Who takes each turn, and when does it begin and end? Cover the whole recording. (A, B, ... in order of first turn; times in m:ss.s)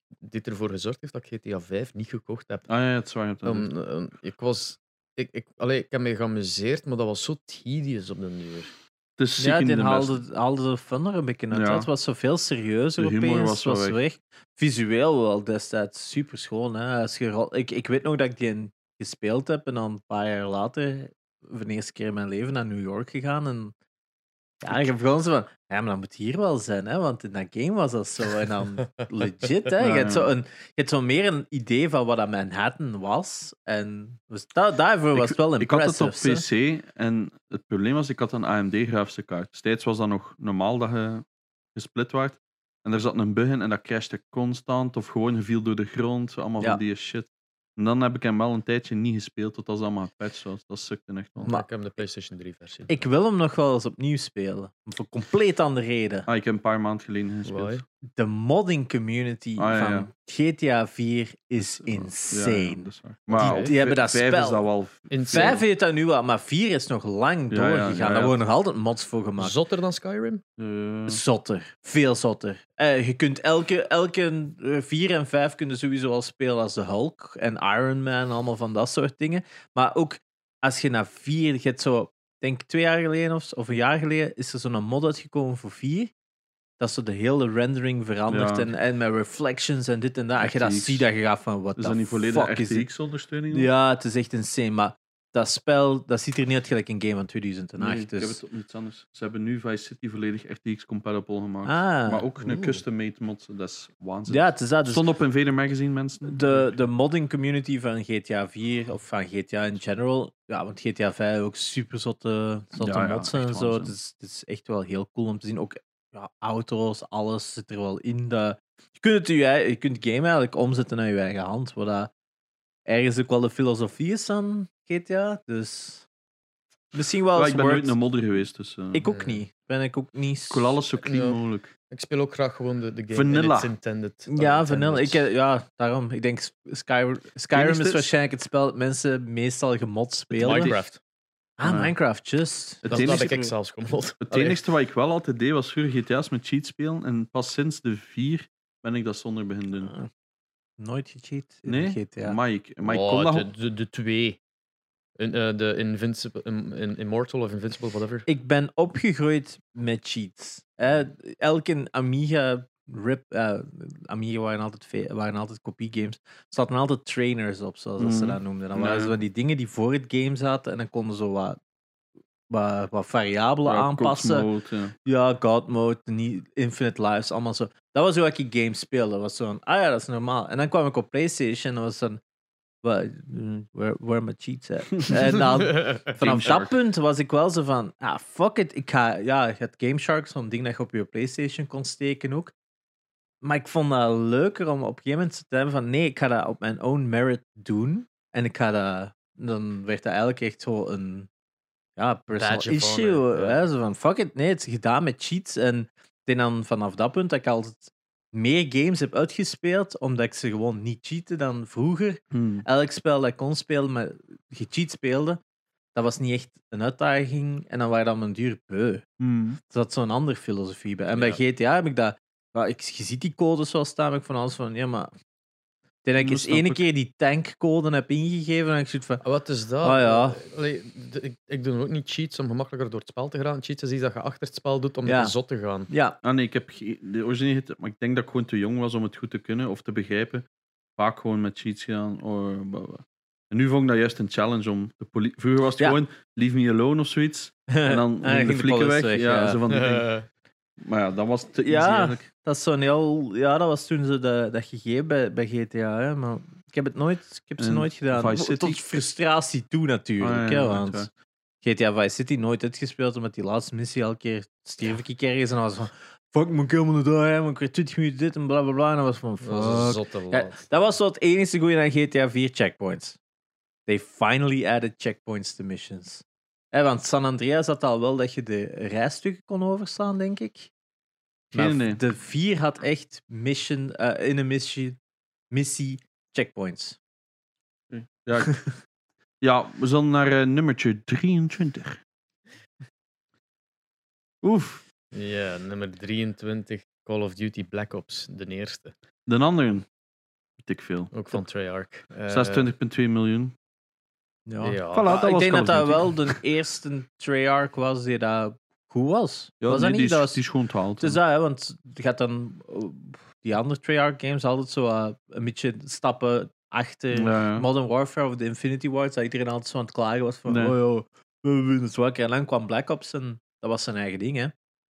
0:00.2-0:02.6 A
0:02.7-0:03.7 B
0:03.4-0:08.7 A
0:09.2-0:10.2 B
0:09.4-0:23.7 C
0:11.5-0:11.9 B
0:13.0-0:14.0 B
0:24.6-0:36.4 C
0:29.8-0:30.3 B
0:35.1-0:41.2 B
0:41.7-0:51.4 B
0:51.4-0:53.0 A
0:52.9-0:56.3 C
0:56.2-0:57.8 B
0:57.4-0:57.8 A
0:58.2-1:04.6 C
0:59.6-1:00.1 B
1:01.6-1:05.6 B
1:03.4-1:03.7 A
1:05.1-1:05.6 A
1:05.3-1:09.5 C
1:07.5-1:08.4 B
1:09.4-1:10.4 A
1:10.6-1:11.2 B
1:11.1-1:26.1 C
1:26.8-1:32.9 C
1:28.3-1:28.7 B
1:30.4-1:31.1 B
1:31.8-1:33.7 B
1:33.5-1:38.4 C
1:37.8-1:46.8 B
1:41.6-1:42.2 C
1:42.4-1:42.8 A
1:44.3-1:45.0 C
1:46.2-2:02.1 C
1:52.8-1:53.9 B
2:02.8-2:06.0 C
2:06.9-2:07.9 C
2:07.3-2:09.0 B
2:08.9-2:10.8 C
2:09.1-2:09.4 A
2:10.5-2:11.7 B
2:11.0-2:11.4 A
2:11.9-2:15.2 A
2:13.1-2:13.7 B
2:14.3-2:20.8 C
2:17.5-2:18.1 B
2:20.4-2:20.8 B
2:20.4-2:21.0 A
2:21.6-2:23.5 C
2:21.6-2:21.9 B
2:22.8-2:23.3 B
2:22.9-2:24.6 A
2:24.2-2:29.9 B
2:29.8-2:30.1 C
2:30.8-2:32.4 C
2:31.6-2:33.5 B
2:32.8-2:34.4 A
2:35.2-2:38.2 A
2:38.2-2:51.6 C
2:48.0-2:49.1 B
2:52.5-2:54.5 C
2:53.6-2:54.9 B
2:55.0-3:02.2 C
3:02.8-3:12.5 C
3:05.6-3:06.6 A
3:06.2-3:06.7 B
3:13.4-3:21.3 C
3:22.0-3:35.4 C
3:22.3-3:23.6 A
3:32.3-3:32.6 B
3:35.9-3:39.0 C
3:39.2-3:39.6 B
3:39.6-3:45.1 C
3:41.1-3:41.4 A
3:46.0-3:49.2 C
3:46.2-3:46.8 B
3:49.2-3:55.9 A
3:49.8-3:50.4 C
3:55.0-3:55.3 C
3:55.9-3:56.2 C
3:56.2-4:00.4 B
4:01.0-4:10.1 B
4:07.7-4:09.6 C
4:09.7-4:10.3 A
4:10.8-4:12.3 B
4:11.6-4:21.1 C
4:17.6-4:18.8 B
4:20.2-4:21.1 B
4:21.6-4:33.2 C
4:29.4-4:30.7 A
4:33.9-4:40.7 C
4:41.5-4:42.0 B
4:41.5-4:45.0 C
4:45.5-4:47.0 C
4:47.9-4:48.6 B
4:49.4-4:52.0 B
4:54.4-4:54.8 B
4:55.1-4:58.9 A
4:59.3-4:59.8 B
5:00.6-5:01.1 B
5:01.1-5:02.7 A
5:02.3-5:03.5 B
5:04.5-5:10.4 C
5:04.6-5:05.1 A
5:04.9-5:06.4 B
5:09.6-5:11.2 B
5:11.0-5:24.5 C
5:17.1-5:17.7 B
5:20.5-5:20.8 B